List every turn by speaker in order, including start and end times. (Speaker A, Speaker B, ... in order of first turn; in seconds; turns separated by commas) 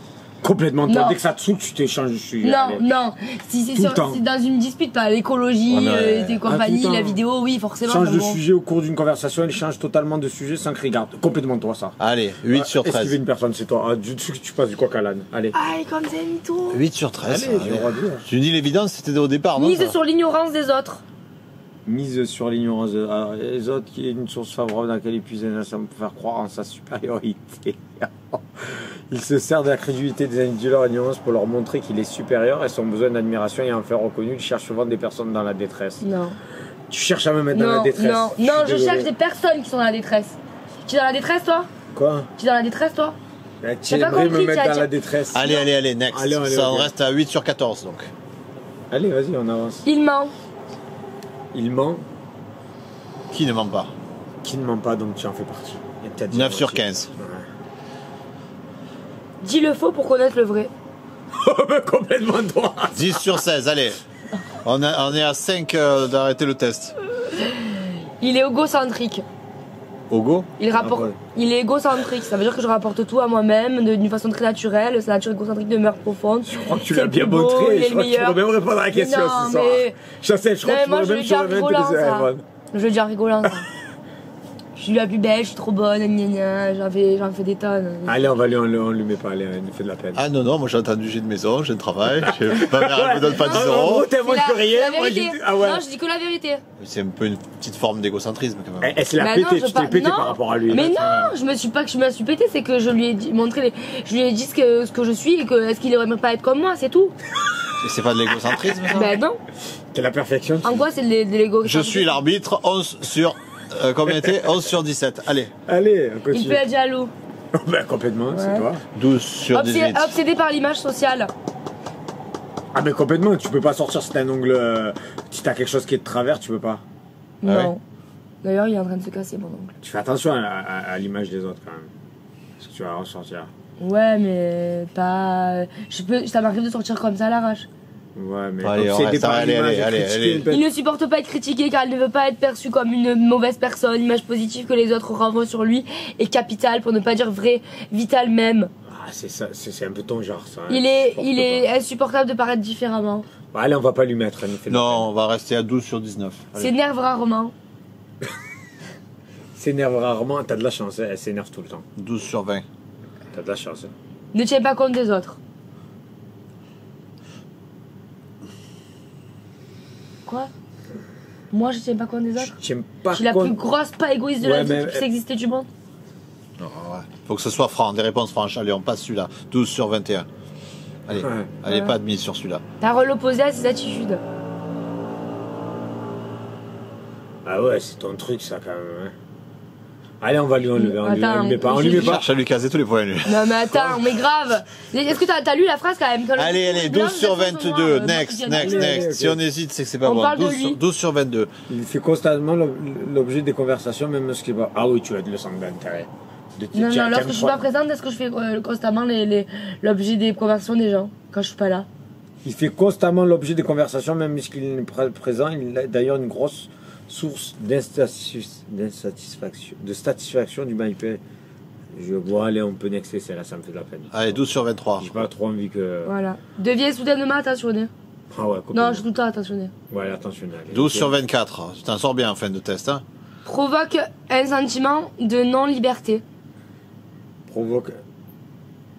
Speaker A: 0.4-2.9, Speaker B: 0.9-1.2, Speaker B: 2.4-8.4, Speaker A: 3.7-4.2, Speaker C: 5.7-6.4, Speaker A: 6.4-7.2, Speaker A: 7.8-12.0, Speaker C: 12.0-13.2, Speaker A: 12.5-15.6, Speaker B: 15.5-16.8, Speaker C: 16.7-20.0, Speaker A: 17.2-18.2, Speaker B: 19.6-21.0, Speaker A: 21.9-36.1, Speaker B: 36.0-36.4, Speaker A: 36.9-39.1, Speaker B: 37.5-41.7, Speaker A: 41.9-42.3, Speaker B: 42.4-43.2, Speaker A: 43.6-46.9, Speaker B: 43.9-44.9, Speaker C: 45.3-48.1, Speaker A: 48.9-49.9, Speaker B: 49.9-50.3, Speaker A: 51.5-52.0, Speaker C: 53.3-53.9, Speaker A: 54.4-57.5, Speaker C: 56.3-57.1, Speaker B: 59.4-60.7, Speaker A: 61.3-63.3, Speaker C: 62.9-64.0, Speaker C: 64.6-67.0, Speaker B: 67.3-69.2, Speaker C: 70.1-70.5, Speaker B: 70.6-78.4, Speaker A: 70.8-71.2, Speaker A: 76.4-82.4, Speaker B: 78.9-80.0, Speaker B: 80.6-83.7, Speaker B: 84.8-88.2, Speaker A: 88.1-90.2, Speaker C: 90.2-94.1, Speaker A: 92.2-95.8, Speaker B: 93.3-96.6, Speaker C: 96.8-99.0, Speaker A: 98.8-100.9, Speaker B: 99.2-107.1, Speaker C: 100.7-101.3, Speaker C: 107.8-109.1, Speaker B: 108.9-109.4, Speaker A: 109.9-110.9, Speaker B: 110.6-112.2, Speaker C: 111.6-115.5, Speaker A: 115.7-116.6, Speaker B: 116.3-117.1, Speaker A: 117.5-118.8, Speaker B: 118.3-118.7, Speaker C: 118.9-120.1, Speaker B: 119.5-121.3, Speaker A: 122.7-126.8, Speaker B: 127.4-127.8, Speaker C: 127.5-127.7, Speaker B: 128.4-129.7, Speaker A: 129.8-131.9, Speaker A: 132.6-133.5, Speaker B: 133.8-137.7, Speaker A: 138.2-140.7, Speaker C: 138.6-140.5, Speaker B: 140.5-148.7, Speaker A: 148.9-151.7, Speaker B: 150.7-153.2, Speaker A: 153.5-155.1, Speaker C: 154.7-156.7, Speaker B: 156.5-157.5, Speaker A: 159.6-161.8, Speaker C: 162.0-162.7, Speaker A: 163.3-163.9, Speaker B: 164.3-165.4, Speaker B: 171.5-172.5, Speaker A: 172.4-173.6, Speaker B: 173.1-175.7, Speaker A: 174.4-175.1, Speaker C: 176.6-180.3, Speaker C: 181.1-182.6, Speaker A: 181.1-181.5, Speaker B: 181.7-181.9, Speaker B: 182.8-184.2, Speaker A: 187.4-189.2, Speaker A: 190.2-192.3, Speaker B: 190.8-192.2, Speaker C: 191.7-193.9, Speaker B: 193.2-199.1, Speaker C: 196.4-201.5, Speaker A: 198.5-199.4, Speaker B: 200.0-200.8, Speaker A: 201.7-207.6, Speaker B: 206.7-211.9, Speaker A: 212.4-221.2, Speaker A: 221.9-224.4, Speaker C: 224.1-225.3, Speaker A: 225.0-226.1, Speaker B: 226.1-227.9, Speaker A: 228.3-229.1, Speaker B: 228.7-229.7, Speaker A: 229.9-231.1, Speaker C: 230.7-233.0, Speaker B: 233.4-236.2, Speaker A: 237.5-238.0